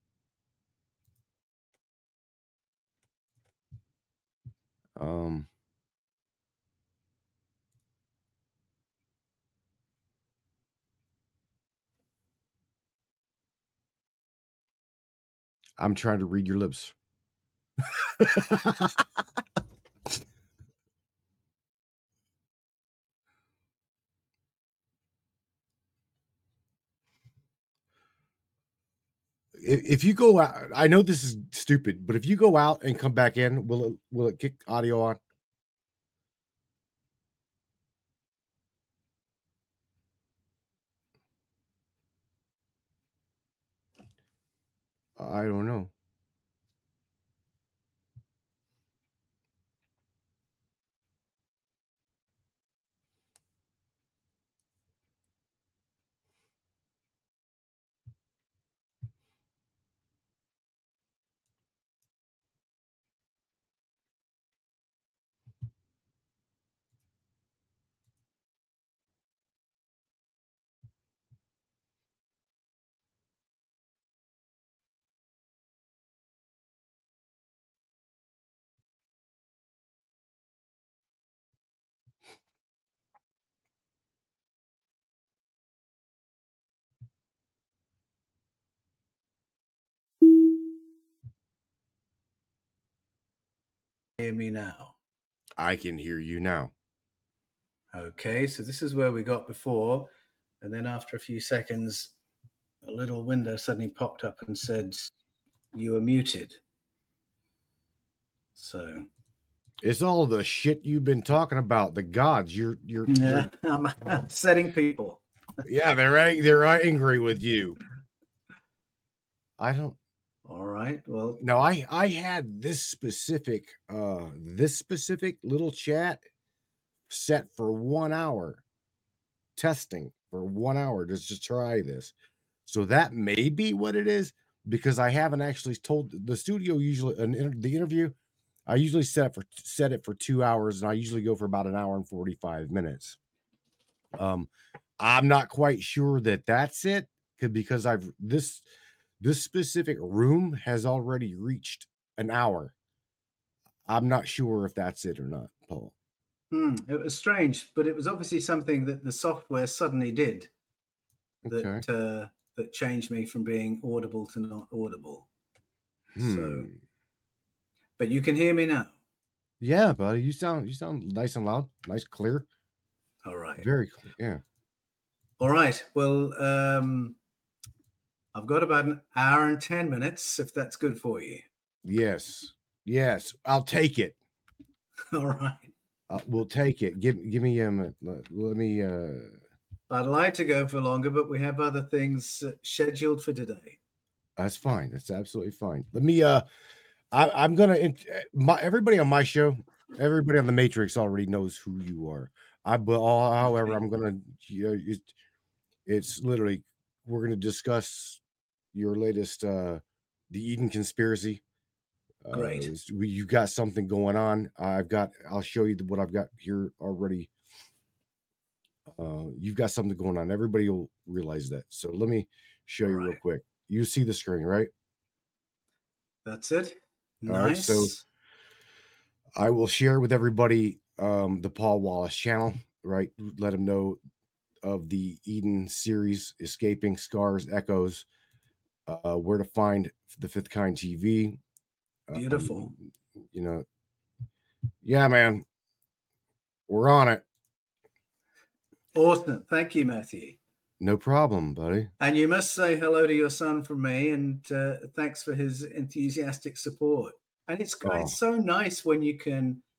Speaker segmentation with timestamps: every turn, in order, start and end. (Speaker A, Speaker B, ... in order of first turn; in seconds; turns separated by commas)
Speaker A: 5.0-5.5, Speaker A: 15.8-16.9, Speaker A: 17.9-19.1, Speaker A: 29.6-35.2, Speaker A: 45.2-45.9, Speaker B: 94.2-95.0, Speaker A: 95.6-96.7, Speaker B: 97.9-100.1, Speaker B: 100.6-102.1, Speaker B: 102.8-105.1, Speaker B: 105.7-106.6, Speaker B: 108.6-109.1, Speaker A: 109.8-113.5, Speaker B: 113.1-115.2, Speaker A: 115.7-117.8, Speaker A: 119.6-120.0, Speaker B: 120.5-121.4, Speaker A: 121.4-126.2, Speaker A: 127.1-128.6, Speaker A: 129.6-132.1, Speaker A: 132.7-138.2, Speaker A: 138.7-143.2, Speaker A: 144.2-148.7, Speaker A: 149.2-152.7, Speaker A: 153.9-155.9, Speaker B: 156.5-160.5, Speaker A: 161.4-161.8, Speaker B: 161.5-165.3, Speaker A: 166.2-166.8, Speaker B: 166.2-166.7, Speaker B: 168.0-168.9, Speaker A: 169.6-172.5, Speaker B: 173.2-173.7, Speaker A: 173.6-174.4, Speaker B: 175.4-177.2, Speaker B: 178.3-181.4, Speaker A: 181.8-184.2, Speaker B: 185.1-185.7, Speaker A: 186.1-189.4, Speaker B: 189.9-193.8, Speaker A: 194.4-196.4, Speaker A: 197.1-205.1, Speaker B: 203.5-203.8, Speaker A: 205.9-208.2, Speaker A: 208.7-211.4, Speaker A: 212.2-217.3, Speaker B: 212.3-212.7, Speaker A: 218.9-224.7, Speaker B: 222.9-223.2, Speaker B: 226.2-228.0, Speaker A: 227.3-227.9, Speaker A: 229.4-234.0, Speaker A: 234.6-238.1, Speaker A: 238.9-241.4, Speaker A: 242.1-242.8, Speaker B: 242.1-242.7, Speaker A: 243.3-243.7, Speaker A: 244.8-245.4, Speaker A: 246.7-247.2, Speaker B: 248.9-250.4, Speaker A: 250.8-251.9, Speaker B: 252.0-259.6, Speaker A: 257.8-258.2